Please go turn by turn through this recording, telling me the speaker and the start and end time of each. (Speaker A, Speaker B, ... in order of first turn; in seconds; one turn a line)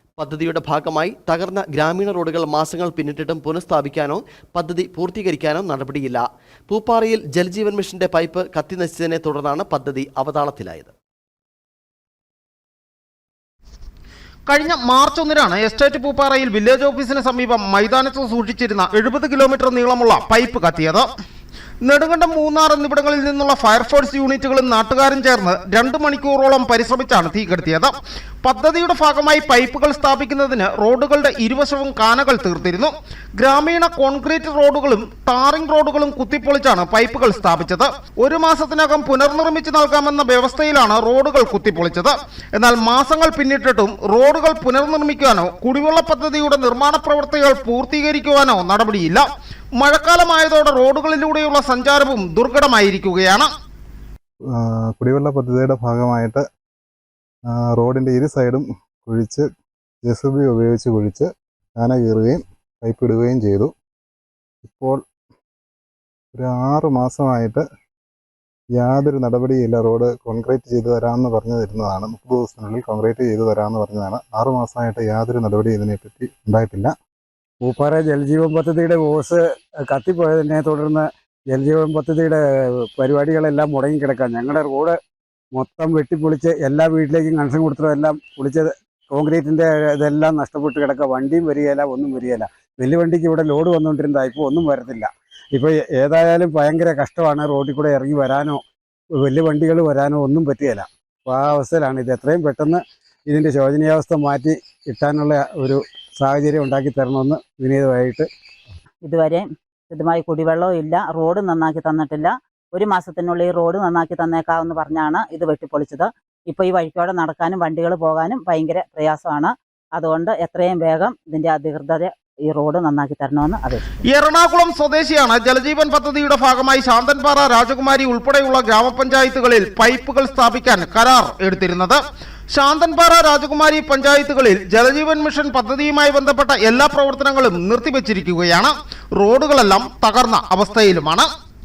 Speaker A: 0.2-6.2
Speaker A: 6.8-10.9
Speaker B: 14.5-21.1
Speaker B: 21.8-27.9
Speaker B: 28.4-49.2
Speaker B: 49.8-53.5
Speaker C: 54.5-56.4
Speaker C: 57.5-59.5
Speaker C: 60.0-61.3
Speaker C: 61.8-63.7
Speaker C: 64.6-65.0
Speaker C: 66.3-67.6
Speaker C: 68.8-76.9
Speaker D: 77.6-82.4
Speaker D: 83.0-85.0
Speaker D: 85.5-98.6
Speaker D: 99.2-108.3
Speaker E: 109.0-123.8
Speaker B: 124.1-132.0
Speaker B: 132.5-141.3